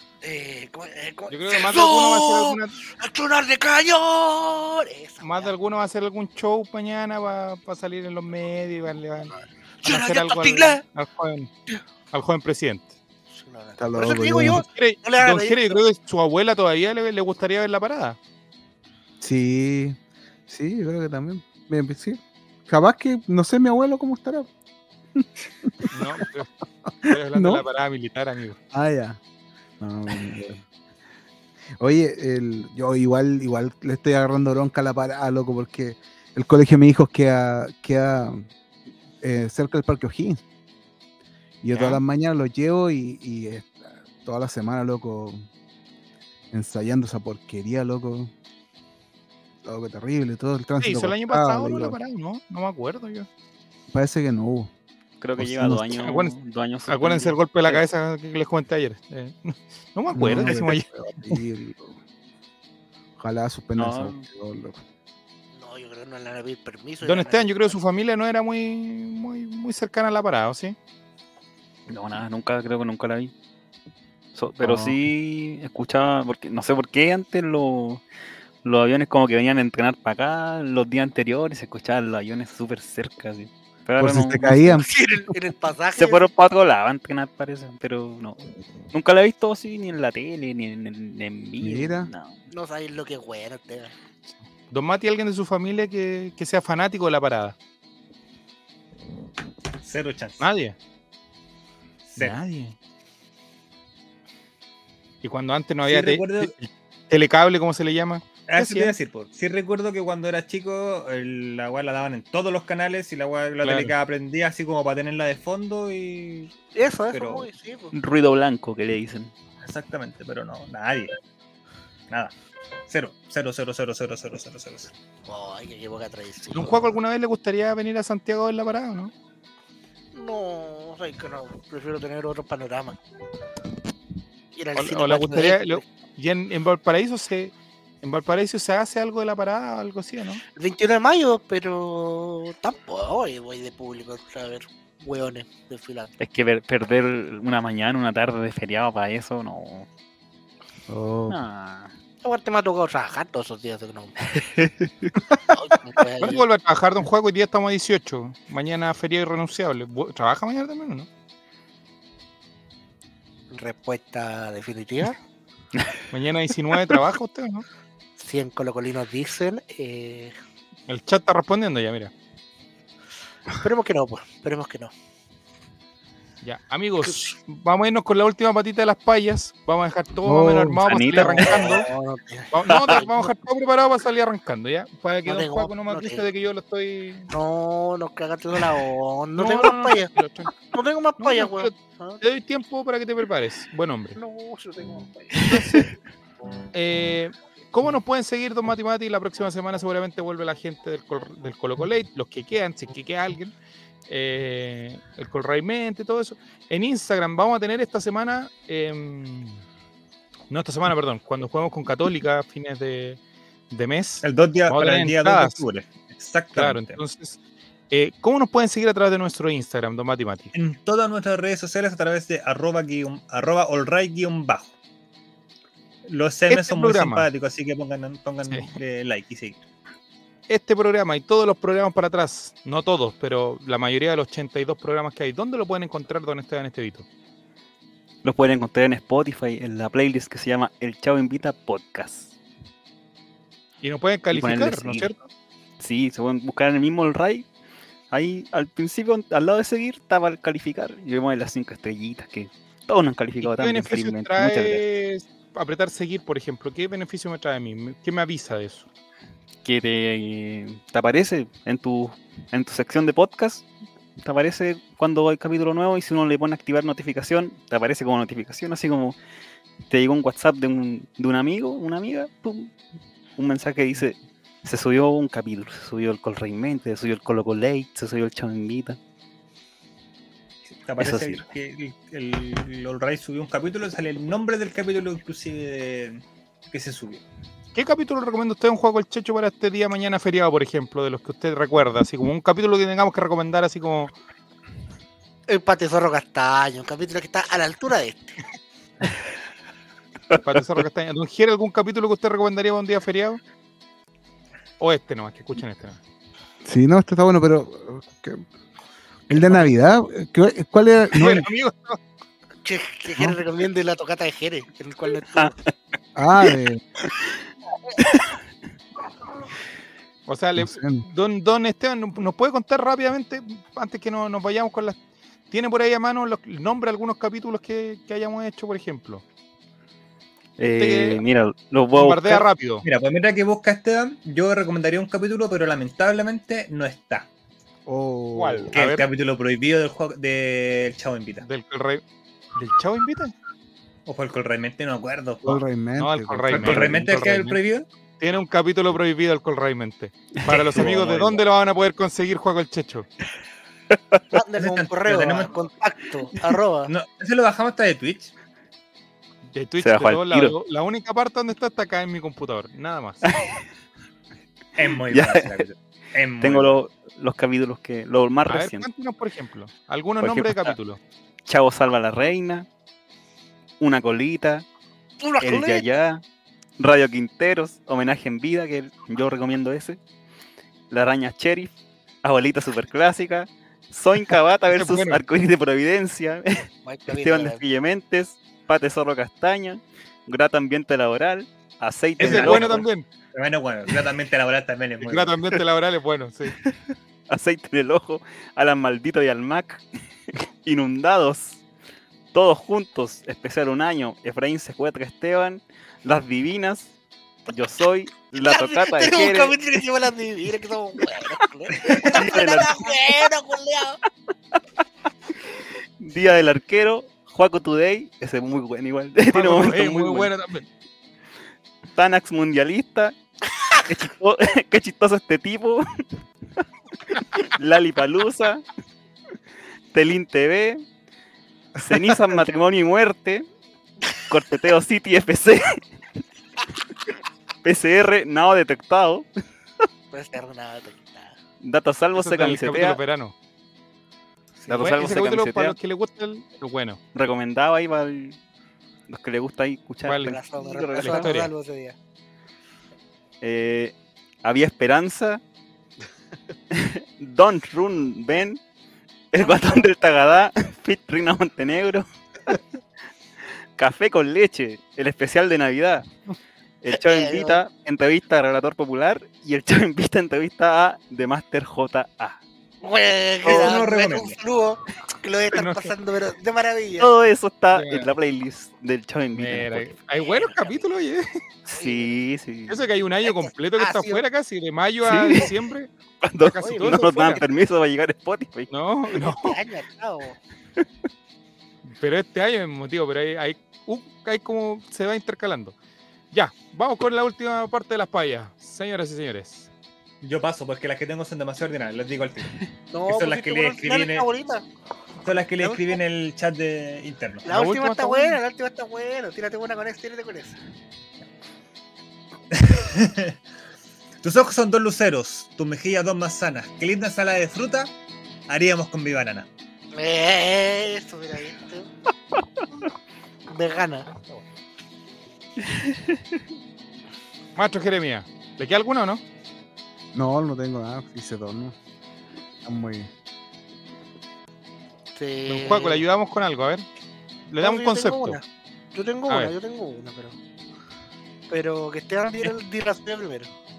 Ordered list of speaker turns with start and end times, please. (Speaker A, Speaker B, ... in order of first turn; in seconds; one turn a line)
Speaker A: 0.2-5.5
Speaker B: 1.3-2.8
Speaker B: 5.2-11.5
Speaker A: 9.8-10.8
Speaker B: 12.1-12.9
Speaker A: 13.3-15.8
Speaker C: 13.8-14.6
Speaker B: 14.4-18.2
Speaker C: 19.2-20.0
Speaker C: 20.5-24.5
Speaker C: 25.2-26.2
Speaker B: 25.9-26.5
Speaker C: 27.0-27.6
Speaker B: 27.0-28.6
Speaker C: 28.7-29.2
Speaker C: 29.8-30.6
Speaker C: 31.8-38.5
Speaker C: 39.2-40.4
Speaker C: 41.6-45.5
Speaker B: 41.7-42.0
Speaker C: 46.5-48.3
Speaker C: 49.6-52.0
Speaker B: 50.8-53.3
Speaker C: 53.9-54.7
Speaker D: 55.2-57.8
Speaker C: 55.4-56.0
Speaker B: 56.0-56.4
Speaker B: 56.9-61.4
Speaker C: 60.1-62.0
Speaker C: 63.2-64.8
Speaker D: 63.8-64.2
Speaker A: 65.5-67.8
Speaker B: 67.0-70.8
Speaker D: 71.9-73.3
Speaker D: 74.3-78.0
Speaker C: 74.6-75.0
Speaker D: 78.6-84.9
Speaker C: 84.0-84.9
Speaker A: 84.8-86.3
Speaker D: 86.0-88.4
Speaker D: 88.9-92.4
Speaker C: 91.6-92.1
Speaker A: 92.5-93.9
Speaker B: 94.7-97.6
Speaker E: 99.8-100.5
Speaker B: 100.4-100.8
Speaker E: 102.0-102.4
Speaker B: 102.2-102.8
Speaker B: 105.2-109.0
Speaker E: 105.8-106.5
Speaker E: 108.5-116.5
Speaker B: 113.6-113.9
Speaker A: 116.8-117.9
Speaker E: 117.1-117.5
Speaker D: 117.9-119.3
Speaker E: 119.6-121.1
Speaker E: 122.9-124.9
Speaker A: 125.3-126.9
Speaker B: 126.5-129.1
Speaker A: 130.1-133.0
Speaker A: 134.6-135.8
Speaker B: 134.8-140.4
Speaker A: 140.6-146.1
Speaker D: 146.2-149.9
Speaker C: 150.9-151.4
Speaker D: 151.3-151.9
Speaker A: 152.2-154.3
Speaker D: 154.3-155.2
Speaker A: 155.5-156.4
Speaker B: 156.2-161.1
Speaker A: 163.5-165.2
Speaker D: 165.8-166.0
Speaker B: 166.1-167.7
Speaker A: 168.2-170.3
Speaker B: 170.9-172.1
Speaker A: 173.6-174.9
Speaker B: 176.4-181.9
Speaker A: 177.0-177.3
Speaker C: 180.2-180.8
Speaker D: 180.8-181.8
Speaker A: 181.1-183.3
Speaker B: 182.5-187.3
Speaker D: 182.7-183.0
Speaker A: 185.3-186.2
Speaker A: 187.3-190.1
Speaker B: 189.4-190.6
Speaker A: 190.7-192.2
Speaker B: 191.2-194.2
Speaker A: 194.2-195.6
Speaker B: 195.4-195.9
Speaker D: 195.6-195.8
Speaker B: 196.7-203.5
Speaker B: 204.1-209.6
Speaker B: 210.5-213.2
Speaker B: 213.7-215.6
Speaker E: 214.2-217.0
Speaker B: 216.6-217.4
Speaker B: 217.9-220.5
Speaker E: 220.5-224.7
Speaker E: 226.1-229.6
Speaker B: 226.5-227.3
Speaker B: 228.5-228.8
Speaker B: 230.5-237.1
Speaker D: 238.2-242.3
Speaker B: 243.8-245.3
Speaker D: 244.3-245.1
Speaker D: 245.8-247.5
Speaker D: 248.1-254.8
Speaker B: 253.4-258.9
Speaker D: 259.6-263.7
Speaker D: 264.2-269.2
Speaker D: 269.9-272.8
Speaker D: 273.4-279.0
Speaker E: 280.7-287.2
Speaker D: 281.0-281.5
Speaker B: 287.8-294.1
Speaker A: 295.5-298.4
Speaker B: 300.4-303.4
Speaker B: 304.8-306.0
Speaker C: 306.6-308.4
Speaker C: 309.3-311.5
Speaker B: 309.4-309.7
Speaker B: 311.1-312.0
Speaker A: 312.6-315.6
Speaker D: 315.3-315.7
Speaker C: 316.2-316.8
Speaker D: 318.1-318.4
Speaker B: 320.3-325.0
Speaker C: 320.6-321.0
Speaker B: 325.5-329.2
Speaker D: 330.6-332.4
Speaker B: 330.7-331.2
Speaker B: 331.9-332.9
Speaker E: 332.8-337.3
Speaker C: 337.9-338.8
Speaker B: 338.3-339.1
Speaker E: 338.7-341.5
Speaker B: 341.4-342.0
Speaker B: 342.6-343.3
Speaker E: 344.1-345.6
Speaker C: 345.4-347.2
Speaker B: 346.0-347.6
Speaker E: 346.5-347.9
Speaker B: 348.2-353.1
Speaker D: 350.4-351.4
Speaker D: 353.9-354.2
Speaker A: 354.3-356.9
Speaker E: 354.6-355.6
Speaker E: 356.9-358.3
Speaker B: 359.5-363.3
Speaker D: 359.8-360.6
Speaker D: 363.2-363.6
Speaker E: 364.8-366.8
Speaker D: 365.1-365.6
Speaker D: 366.4-368.9
Speaker B: 368.5-371.0
Speaker D: 370.2-370.8
Speaker D: 371.5-372.7
Speaker D: 373.8-374.7
Speaker A: 375.2-376.0
Speaker D: 375.4-376.2
Speaker D: 376.8-380.0
Speaker D: 380.9-381.7
Speaker D: 382.2-392.9
Speaker B: 384.7-385.2
Speaker A: 386.8-387.6
Speaker E: 392.2-395.4
Speaker B: 392.2-393.1
Speaker B: 395.0-396.6
Speaker D: 396.5-401.6
Speaker D: 402.3-406.9
Speaker D: 407.5-409.6
Speaker A: 408.3-414.0
Speaker E: 411.8-412.1
Speaker D: 411.9-413.2
Speaker D: 415.5-420.3
Speaker B: 419.3-420.6
Speaker D: 421.9-423.1
Speaker D: 423.9-425.9
Speaker D: 427.2-428.6
Speaker D: 429.9-430.8
Speaker D: 431.8-433.5
Speaker D: 434.3-435.8
Speaker D: 437.6-439.3
Speaker A: 440.1-441.4
Speaker D: 441.6-443.0
Speaker B: 442.1-443.3
Speaker A: 444.6-445.0
Speaker D: 444.7-445.8
Speaker B: 444.7-447.0
Speaker D: 447.1-448.4
Speaker D: 449.1-451.3
Speaker B: 450.1-450.4
Speaker A: 450.2-451.9
Speaker B: 451.0-451.5
Speaker D: 453.4-455.4
Speaker D: 456.7-458.6
Speaker D: 459.3-462.6
Speaker A: 459.4-459.9
Speaker D: 463.8-466.1
Speaker D: 466.8-472.4
Speaker A: 466.9-467.6
Speaker A: 472.8-477.1
Speaker E: 473.4-474.4
Speaker B: 475.5-475.9
Speaker D: 477.0-480.1
Speaker B: 477.7-478.1
Speaker B: 479.3-481.4
Speaker A: 480.3-480.9
Speaker D: 481.7-482.9
Speaker A: 481.8-482.1
Speaker B: 482.7-485.9
Speaker A: 483.2-484.2
Speaker D: 485.0-485.5
Speaker D: 486.2-488.7
Speaker B: 486.4-487.4
Speaker A: 486.6-487.4
Speaker B: 488.7-489.6
Speaker A: 489.1-490.4
Speaker B: 491.9-495.8
Speaker B: 496.3-499.7
Speaker E: 500.2-504.3
Speaker A: 502.9-504.7
Speaker E: 505.2-507.5
Speaker A: 505.6-506.0
Speaker A: 507.4-510.6
Speaker B: 507.5-508.4
Speaker E: 512.5-513.4
Speaker E: 514.2-517.9
Speaker E: 518.5-519.5
Speaker A: 519.9-521.9
Speaker A: 523.5-524.1
Speaker D: 525.6-526.4
Speaker B: 527.6-529.2
Speaker C: 530.1-531.8
Speaker C: 532.6-533.1
Speaker A: 535.2-536.0
Speaker B: 535.5-536.9
Speaker B: 537.5-538.4
Speaker A: 537.6-540.4
Speaker B: 539.3-539.5
Speaker A: 541.5-543.5